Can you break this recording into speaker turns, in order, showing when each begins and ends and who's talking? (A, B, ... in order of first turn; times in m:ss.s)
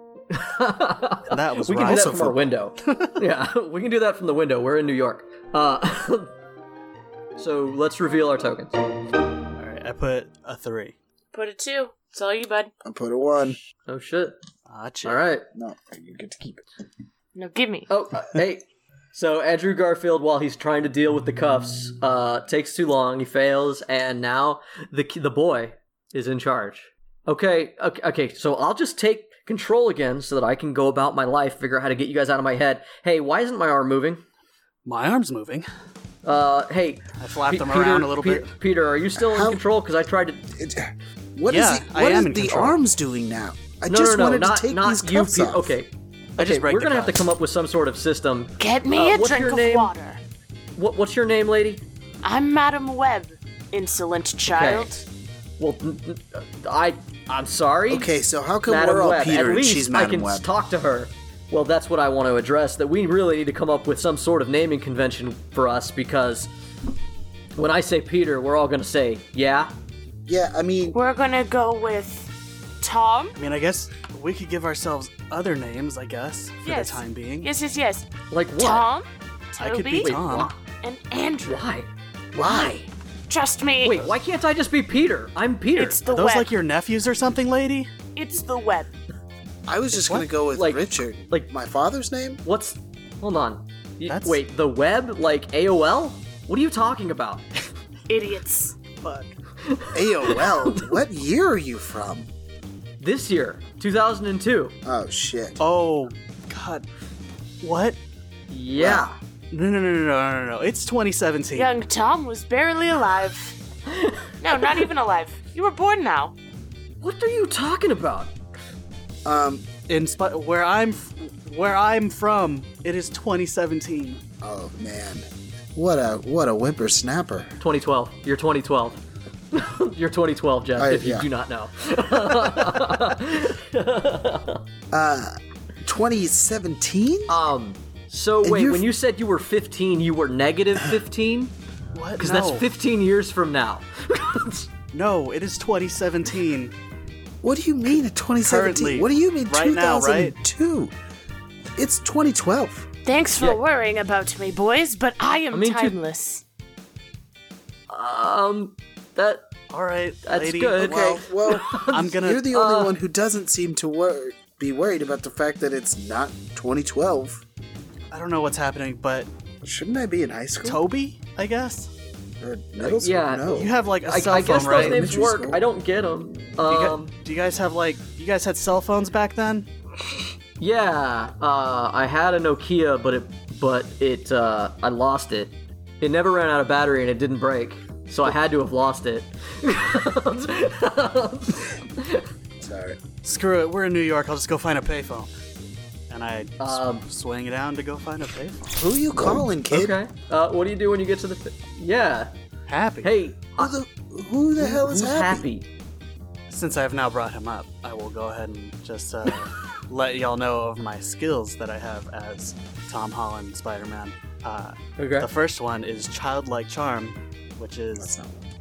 0:00.3-0:06.3 A
0:01.3-0:03.2 B
0:07.4-0:08.8 A
0:09.6-0:11.0 B
0:11.3-0:12.7 C
0:12.8-0:13.6 D
0:13.9-0:14.4 A
0:14.7-0:15.2 B
0:15.0-0:15.5 A
0:15.5-0:16.6 D
0:17.4-0:17.9 C
0:17.9-0:34.2 A
0:34.9-0:35.7 B
0:36.2-0:40.4 A
0:37.2-0:38.5 B
0:39.2-0:39.6 D
0:40.6-0:45.8 D
0:41.5-0:42.8 B
0:43.9-0:49.9 A
0:46.4-0:47.2 B
0:48.6-0:50.2 C
0:50.8-0:51.8 A
0:52.2-0:54.9 C
0:54.5-0:54.9 A
0:55.6-0:58.1 A
0:57.9-1:00.5 D
0:58.7-1:06.5 A
1:07.6-1:09.7 A
1:10.3-1:11.0 D
1:10.9-1:13.4 C
1:13.4-1:17.5 B
1:16.6-1:20.2 C
1:18.3-1:18.9 A
1:19.6-1:20.5 B
1:20.0-1:20.6 A
1:20.8-1:21.7 C
1:21.4-1:22.9 A
1:22.3-1:22.8 D
1:23.3-1:24.1 C
1:23.8-1:26.0 A
1:25.8-1:26.5 C
1:26.1-1:27.9 B
1:28.2-1:28.9 C
1:29.7-1:32.4 D
1:29.9-1:30.3 B
1:30.5-1:31.5 A
1:32.4-1:37.5 A
1:34.0-1:34.4 B
1:38.1-1:38.8 C
1:39.0-1:39.3 B
1:39.7-1:41.0 A
1:39.9-1:42.3 D
1:43.0-1:44.8 A
1:44.8-1:45.6 D
1:45.6-1:46.9 B
1:47.6-1:48.0 B
1:48.5-1:49.2 A
1:48.8-1:49.1 D
1:49.5-1:51.7 B
1:51.5-1:53.6 C
1:53.9-1:54.9 A
1:54.4-1:56.4 C
1:57.0-1:58.3 A
1:59.2-1:59.6 D
1:59.9-2:04.2 B
2:04.4-2:07.5 D
2:07.6-2:14.6 A
2:10.8-2:11.3 D
2:14.9-2:17.4 D
2:17.3-2:21.5 A
2:18.4-2:18.8 D
2:21.9-2:22.6 B
2:22.2-2:24.7 A
2:24.9-2:26.8 B
2:27.4-2:30.9 D
2:28.4-2:30.4 B
2:31.8-2:32.9 D
2:33.0-2:36.4 C
2:35.5-2:36.0 A
2:37.9-2:39.5 A
2:39.7-2:42.5 B
2:40.3-2:43.0 A
2:40.8-2:47.4 D
2:48.1-2:49.3 B
2:49.6-2:50.8 D
2:50.6-2:51.9 B
2:52.4-2:53.7 D
2:52.8-2:57.1 A
2:53.5-2:55.1 B
2:54.6-2:55.6 D
2:56.7-2:59.7 B
3:00.6-3:12.2 A
3:12.6-3:13.0 D
3:13.2-3:15.3 B
3:16.1-3:18.8 B
3:16.6-3:17.0 A
3:18.8-3:20.0 D
3:19.7-3:22.3 A
3:22.7-3:23.1 B
3:23.0-3:23.8 A
3:23.6-3:25.5 D
3:24.6-3:25.7 A
3:26.5-3:38.1 B
3:35.0-3:35.3 A
3:38.0-3:38.4 D